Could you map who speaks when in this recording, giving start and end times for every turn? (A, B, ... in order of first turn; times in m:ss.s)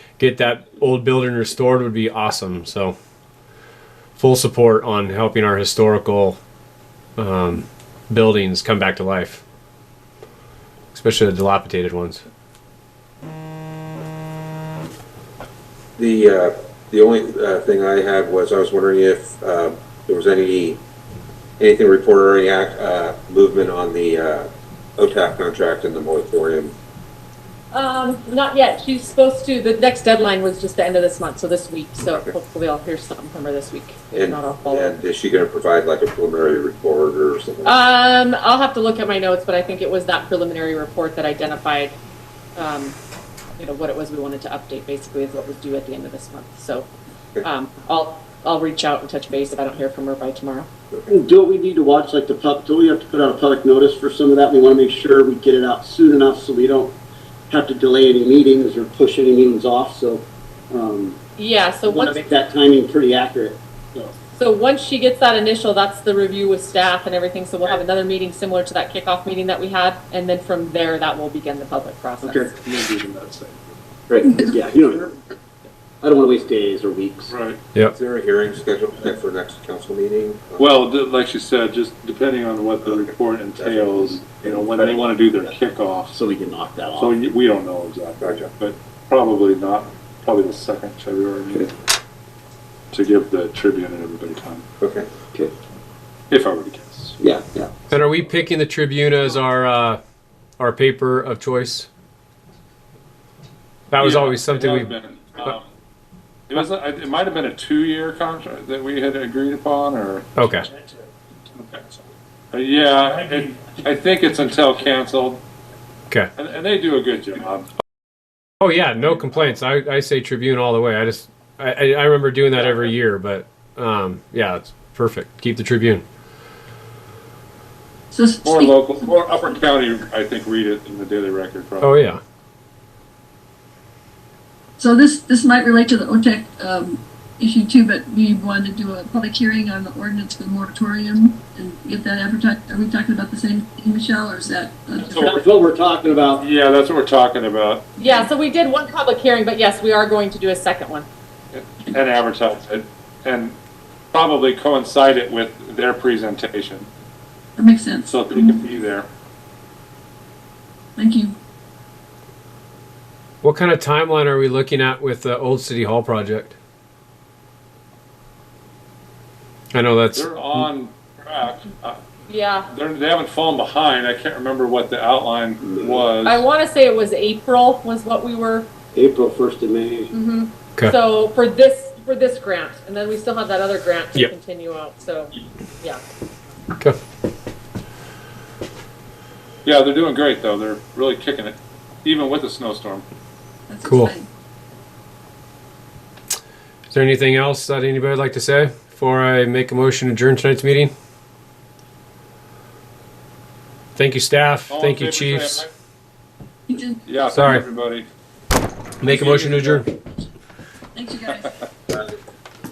0:00.2-0:02.9 A
0:04.2-0:06.4 A
0:07.2-0:09.4 A
0:10.9-0:12.2 A
0:16.0-0:20.8 B
0:21.6-0:26.7 B
0:27.7-0:35.0 C
0:32.0-0:32.3 B
0:34.1-0:37.8 B
0:37.6-0:42.0 C
0:42.6-0:43.0 C
0:43.6-0:46.9 C
0:47.4-0:50.7 C
0:51.1-0:57.0 D
0:57.5-1:01.2 D
1:01.4-1:02.3 C
1:01.9-1:03.6 D
1:04.3-1:12.5 C
1:12.4-1:13.8 E
1:14.1-1:15.2 D
1:16.0-1:17.3 D
1:17.3-1:17.6 E
1:17.9-1:20.8 B
1:20.6-1:26.2 E
1:22.8-1:23.8 B
1:24.5-1:25.0 D
1:26.1-1:27.2 D
1:27.0-1:31.7 E
1:28.2-1:28.5 B
1:32.9-1:34.6 E
1:34.8-1:35.1 B
1:36.3-1:37.2 E
1:37.2-1:37.7 D
1:37.9-1:40.0 A
1:40.6-1:41.9 A
1:43.9-1:44.9 A
1:44.0-1:45.6 E
1:46.5-1:50.3 E
1:50.4-1:50.7 A
1:52.5-1:55.4 E
1:56.4-1:57.7 E
1:58.6-2:06.0 A
2:08.1-2:08.8 F
2:08.4-2:12.0 E
2:11.8-2:12.2 A
2:14.8-2:25.2 F
2:25.0-2:25.4 E
2:25.2-2:26.5 D
2:26.4-2:28.0 E
2:28.0-2:28.3 F
2:28.0-2:31.1 C
2:31.5-2:33.6 E
2:34.1-2:36.9 E
2:37.6-2:38.6 F
2:38.0-2:39.1 E
2:41.0-2:41.4 F
2:43.4-2:46.6 A
2:49.7-2:50.6 A
2:50.2-2:52.0 E
2:52.3-2:52.7 C
2:52.7-2:56.4 E
2:55.6-2:56.1 D
2:56.2-2:58.7 C
2:58.9-3:00.1 D
3:00.1-3:06.0 C
3:09.6-3:13.0 E
3:13.7-3:14.3 F
3:13.8-3:14.1 A
3:16.9-3:20.9 A
3:24.0-3:25.7 A
3:24.7-3:25.7 E
3:26.7-3:27.0 F
3:27.1-3:28.1 E
3:27.3-3:27.6 A
3:29.0-3:29.9 A
3:29.0-3:29.8 E
3:31.0-3:31.6 F